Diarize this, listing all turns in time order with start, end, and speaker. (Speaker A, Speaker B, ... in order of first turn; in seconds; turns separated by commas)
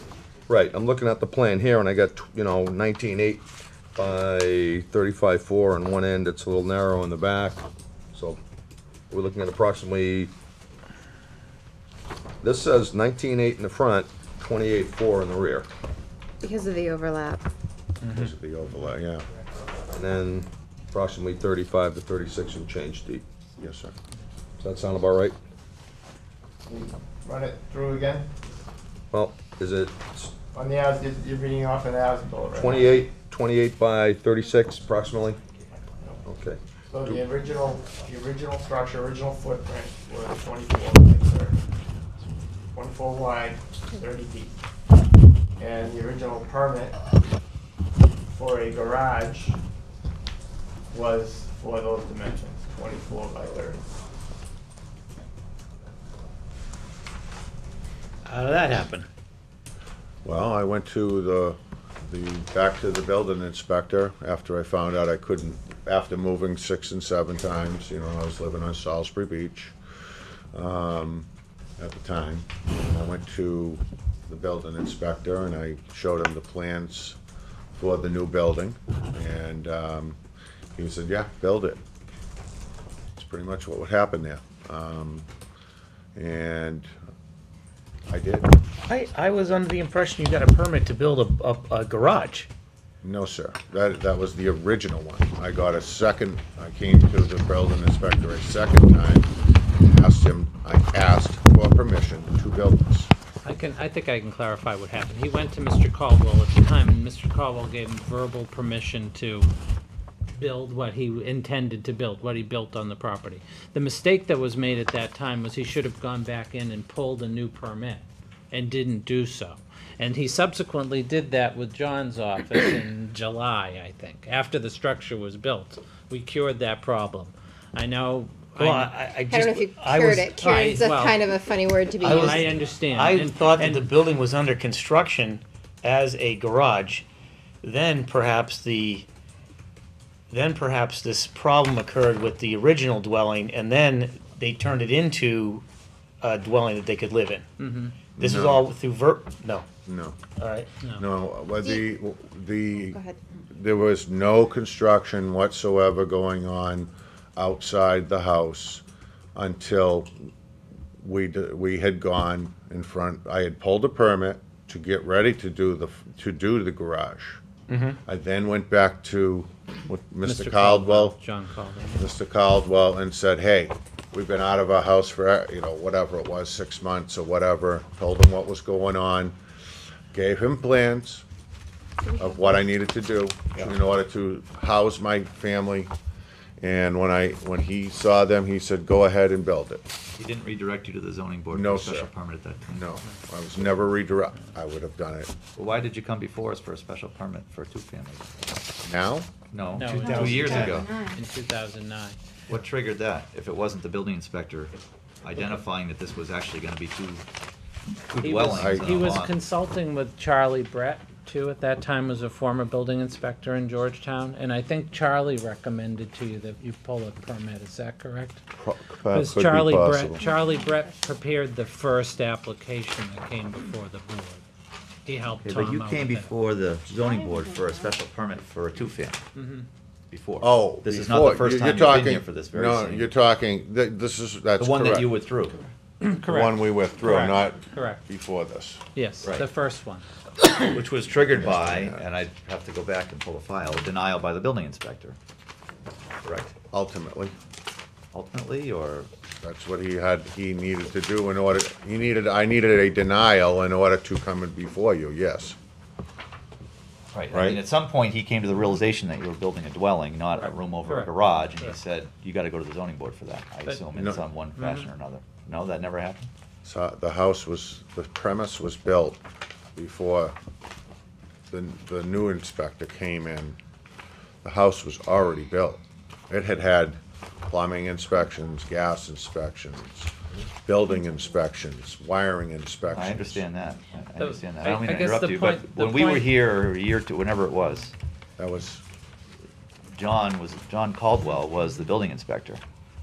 Speaker A: 0.5-8.4, Speaker A: 9.1-10.3, Speaker A: 12.4-15.7, Speaker B: 16.4-17.4, Speaker C: 18.0-18.3, Speaker D: 18.1-19.2, Speaker E: 18.7-18.9, Speaker A: 19.9-23.2, Speaker D: 23.6-23.9, Speaker A: 24.6-25.4, Speaker F: 26.6-28.3, Speaker A: 29.1-30.3, Speaker F: 30.5-33.1, Speaker A: 32.5-35.4, Speaker A: 36.2-37.2, Speaker F: 36.8-41.6, Speaker F: 42.7-44.6, Speaker F: 45.6-47.0, Speaker F: 48.3-49.6, Speaker F: 50.9-53.8, Speaker C: 58.2-59.1, Speaker D: 60.2-69.7, Speaker D: 70.5-77.2, Speaker D: 77.8-80.2, Speaker D: 80.8-81.8, Speaker D: 83.1-85.3, Speaker D: 86.2-86.9, Speaker D: 88.1-88.5, Speaker C: 88.9-92.5, Speaker D: 93.0-103.1, Speaker E: 103.4-109.5, Speaker E: 110.3-128.9, Speaker C: 128.6-130.7, Speaker B: 129.3-132.4, Speaker E: 130.4-131.2, Speaker C: 132.0-137.0, Speaker E: 132.2-133.9, Speaker C: 137.6-139.1, Speaker C: 140.3-145.6, Speaker C: 146.2-147.4, Speaker E: 147.6-147.9, Speaker C: 148.1-149.7, Speaker D: 148.2-148.6, Speaker D: 149.8-150.2, Speaker C: 150.3-150.7, Speaker E: 150.8-151.1, Speaker D: 151.0-158.8, Speaker B: 151.6-151.9, Speaker B: 152.8-153.2, Speaker D: 159.3-160.1, Speaker D: 161.0-167.4, Speaker C: 167.7-168.0, Speaker D: 168.1-171.2, Speaker E: 170.2-172.1, Speaker D: 171.9-179.3, Speaker D: 180.1-181.2, Speaker D: 182.2-185.9, Speaker D: 186.6-189.8, Speaker G: 190.2-192.8, Speaker D: 191.5-192.1, Speaker D: 192.7-195.3, Speaker G: 195.6-198.3, Speaker D: 198.8-199.3, Speaker G: 199.5-200.9, Speaker E: 199.7-202.2, Speaker B: 200.0-201.2, Speaker G: 202.5-207.2, Speaker E: 205.3-205.6, Speaker G: 208.1-209.3, Speaker E: 208.2-218.4, Speaker D: 208.4-209.0, Speaker D: 218.6-220.2, Speaker E: 219.1-224.4, Speaker E: 225.1-226.3, Speaker G: 225.4-229.2, Speaker E: 229.3-229.7, Speaker G: 230.1-233.1, Speaker D: 230.4-235.1, Speaker G: 234.6-235.7, Speaker E: 236.0-238.0, Speaker D: 236.2-238.8, Speaker E: 238.9-240.1, Speaker G: 239.2-239.5, Speaker G: 240.6-245.2, Speaker D: 241.4-242.0, Speaker G: 246.2-246.5, Speaker D: 246.7-247.3, Speaker G: 248.1-249.1, Speaker D: 249.4-255.6, Speaker G: 257.1-266.3, Speaker D: 257.3-257.6, Speaker E: 260.3-261.8, Speaker D: 263.9-264.2, Speaker E: 264.6-264.9, Speaker D: 266.6-269.2, Speaker D: 269.8-270.3, Speaker D: 271.5-273.6, Speaker D: 274.4-280.1, Speaker D: 280.6-283.4, Speaker G: 282.9-287.9, Speaker E: 284.1-286.4, Speaker D: 288.4-288.8, Speaker G: 289.9-292.6